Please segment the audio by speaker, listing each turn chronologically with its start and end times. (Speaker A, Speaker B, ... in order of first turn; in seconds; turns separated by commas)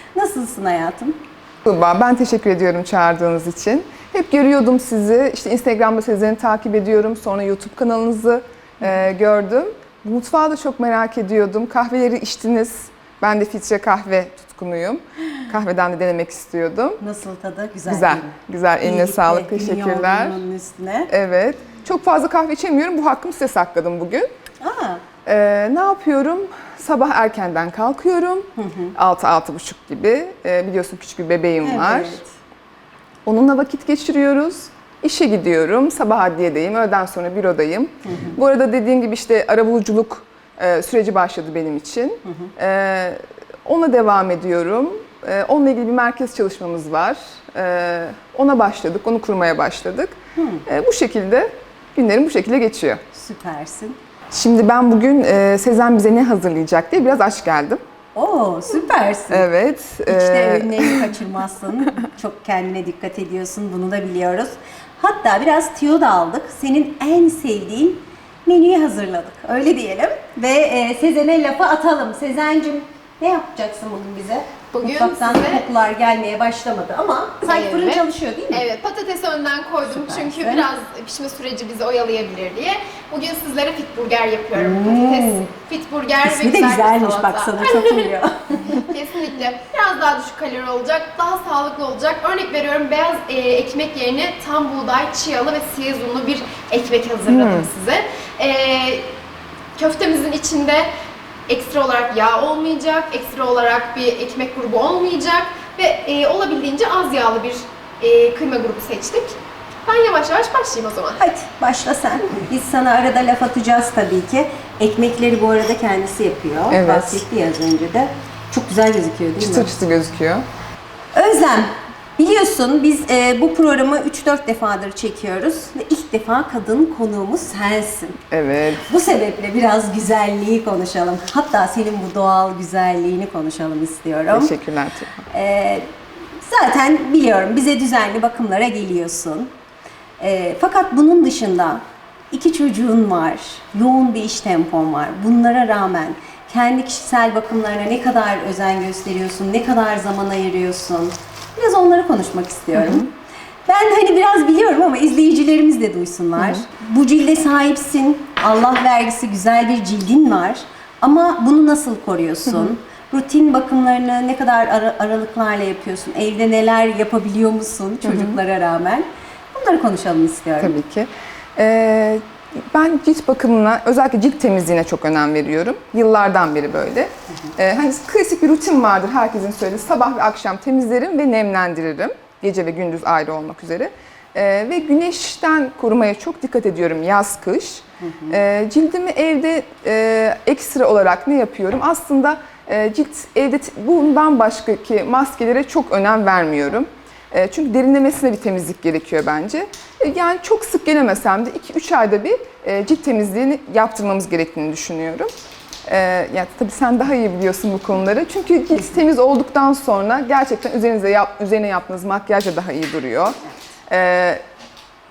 Speaker A: 0.1-1.2, Speaker B: 1.6-17.0, Speaker A: 17.0-21.1, Speaker B: 17.9-20.4, Speaker B: 21.1-24.3, Speaker A: 24.6-25.0, Speaker B: 25.2-32.2, Speaker A: 28.6-28.9, Speaker A: 31.6-32.3, Speaker B: 33.2-50.1, Speaker A: 38.0-38.4, Speaker A: 42.2-42.5, Speaker A: 50.4-50.6, Speaker B: 50.7-53.0, Speaker A: 53.1-54.0, Speaker B: 54.3-57.8, Speaker A: 58.1-59.5, Speaker B: 59.3-61.1, Speaker A: 60.1-78.7, Speaker C: 74.7-75.7, Speaker C: 77.4-88.1, Speaker A: 79.8-80.7, Speaker A: 84.5-85.5, Speaker A: 86.2-88.9, Speaker C: 88.7-99.1, Speaker B: 97.2-97.7, Speaker C: 99.8-100.9, Speaker C: 101.5-111.2, Speaker A: 111.2-119.7, Speaker B: 116.7-117.2, Speaker B: 119.4-120.5, Speaker A: 121.1-128.2, Speaker B: 128.3-128.8, Speaker A: 128.9-134.5, Speaker B: 134.3-135.2, Speaker A: 135.3-139.5, Speaker A: 140.2-153.1, Speaker B: 152.7-153.0, Speaker A: 153.7-170.8, Speaker B: 168.0-168.4, Speaker B: 170.6-205.3, Speaker A: 188.0-188.4, Speaker B: 205.9-213.3, Speaker B: 213.9-214.4